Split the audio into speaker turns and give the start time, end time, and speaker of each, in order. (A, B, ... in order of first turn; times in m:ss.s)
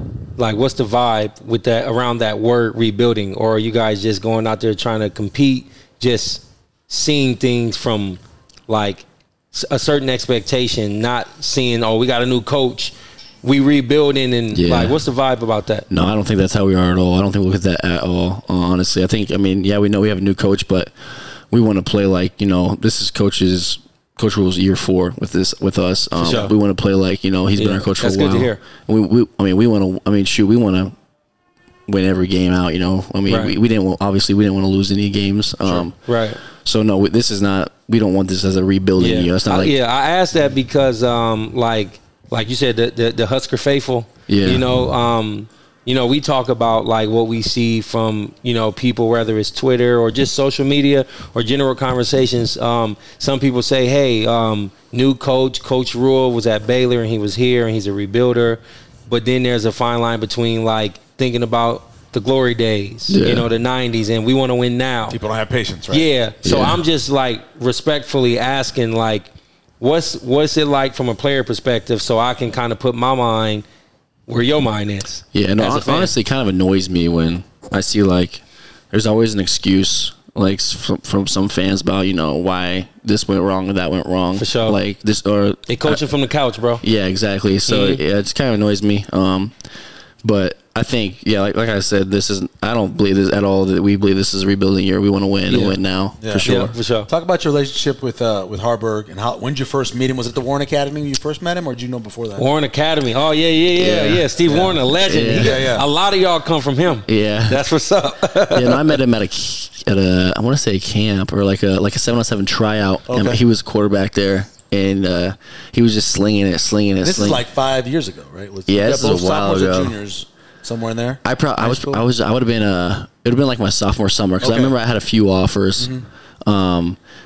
0:00.4-0:15.8 A
0:14.5-0:15.0 B
0:15.9-0:20.9 B
0:21.5-0:30.9 B
0:26.2-0:26.5 A
0:27.6-0:28.6 A
0:31.9-0:36.0 B
0:33.3-0:33.6 A
0:35.6-0:35.9 C
0:36.0-0:36.4 A
0:36.6-0:39.8 B
0:39.0-1:05.2 A
0:44.3-0:44.6 B
1:03.1-1:03.5 B
1:05.1-1:06.1 C
1:05.9-1:09.3 A
1:06.4-1:06.8 B
1:09.8-1:13.6 A
1:14.3-1:16.1 A
1:15.3-1:26.0 B
1:24.4-1:24.8 A
1:25.7-1:26.8 A
1:26.8-1:29.5 B
1:27.7-1:28.0 A
1:30.2-1:36.7 B
1:35.5-1:35.8 A
1:36.2-1:42.4 C
1:36.4-1:37.1 A
1:42.4-1:49.0 A
1:43.8-1:44.3 B
1:44.4-1:44.8 C
1:45.0-1:45.7 B
1:45.4-1:45.8 C
1:47.1-1:47.6 B
1:48.5-1:57.4 B
1:53.1-1:53.4 C
1:57.0-2:02.0 C
1:58.7-1:59.9 B
2:01.2-2:05.9 B
2:04.4-2:04.7 C
2:05.8-2:06.0 C
2:06.4-2:07.0 B